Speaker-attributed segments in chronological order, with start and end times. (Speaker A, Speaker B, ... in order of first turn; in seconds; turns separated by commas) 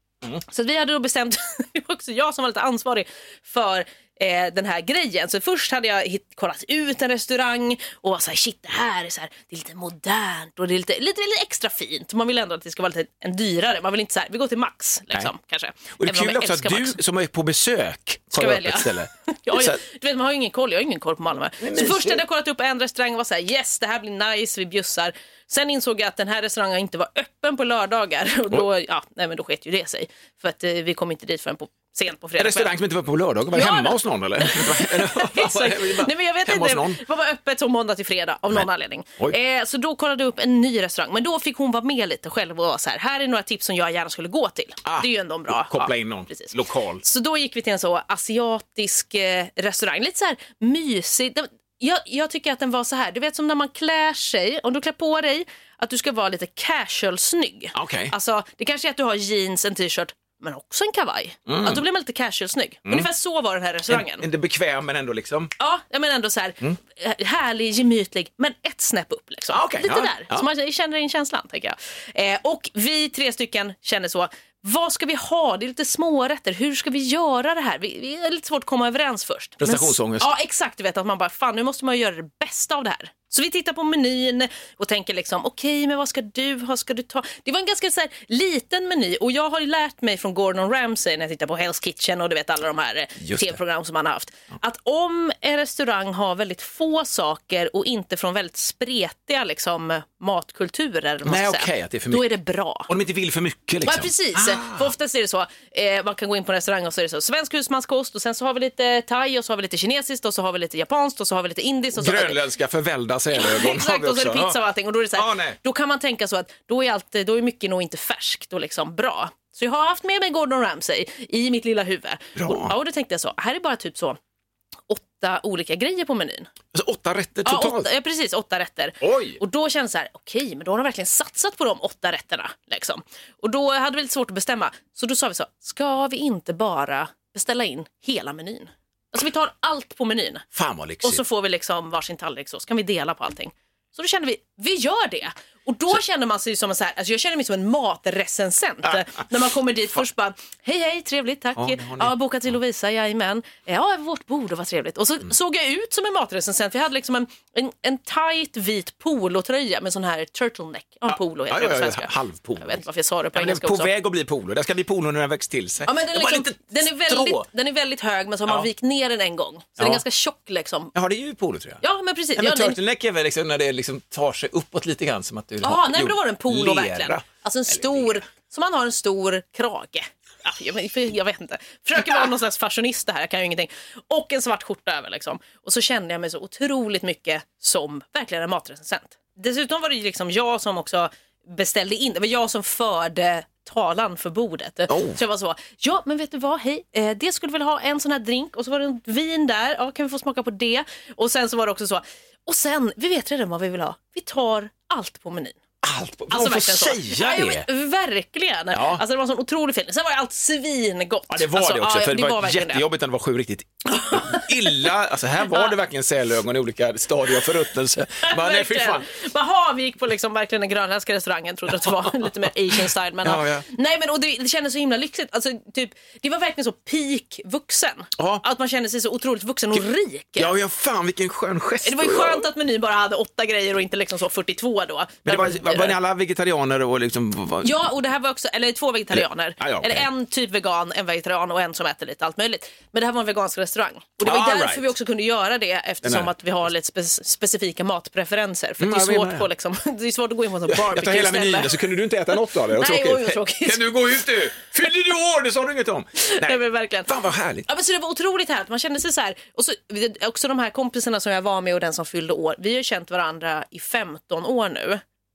Speaker A: 0.4-17.0, Speaker B: 15.9-19.8, Speaker A: 18.3-32.7, Speaker B: 21.6-22.2, Speaker B: 32.4-37.0, Speaker A: 33.5-64.3, Speaker B: 44.9-47.0, Speaker B: 57.7-58.1, Speaker B: 61.5-61.8, Speaker B: 63.9-65.5, Speaker A: 65.6-102.9, Speaker B: 69.5-70.5, Speaker B: 79.6-80.3, Speaker B: 93.2-93.6, Speaker B: 101.2-102.3, Speaker B: 102.9-104.9, Speaker A: 103.8-112.4, Speaker B: 111.9-114.6, Speaker A: 113.3-124.2, Speaker B: 115.1-115.6, Speaker B: 122.3-122.7, Speaker A: 124.9-126.5, Speaker B: 126.7-127.9, Speaker A: 127.4-140.4, Speaker B: 129.0-129.4, Speaker B: 140.5-141.2, Speaker A: 141.0-163.9, Speaker B: 151.6-152.1, Speaker B: 161.1-162.8, Speaker B: 163.3-167.4, Speaker A: 165.8-170.9, Speaker B: 170.9-171.8, Speaker A: 171.8-172.8, Speaker B: 172.3-178.1, Speaker A: 175.6-205.6, Speaker B: 194.9-195.2, Speaker B: 205.8-207.7, Speaker A: 206.3-212.8, Speaker B: 208.7-209.0, Speaker B: 211.3-219.1, Speaker A: 214.1-214.8, Speaker A: 218.2-230.5, Speaker B: 223.2-223.6, Speaker B: 228.2-228.4, Speaker B: 230.4-232.5, Speaker A: 231.8-236.0, Speaker B: 235.2-237.9, Speaker A: 237.6-254.5, Speaker B: 239.1-240.1, Speaker B: 244.2-244.9, Speaker B: 246.0-246.3, Speaker B: 248.8-249.5, Speaker B: 250.7-257.6, Speaker A: 256.2-257.1, Speaker A: 257.6-265.0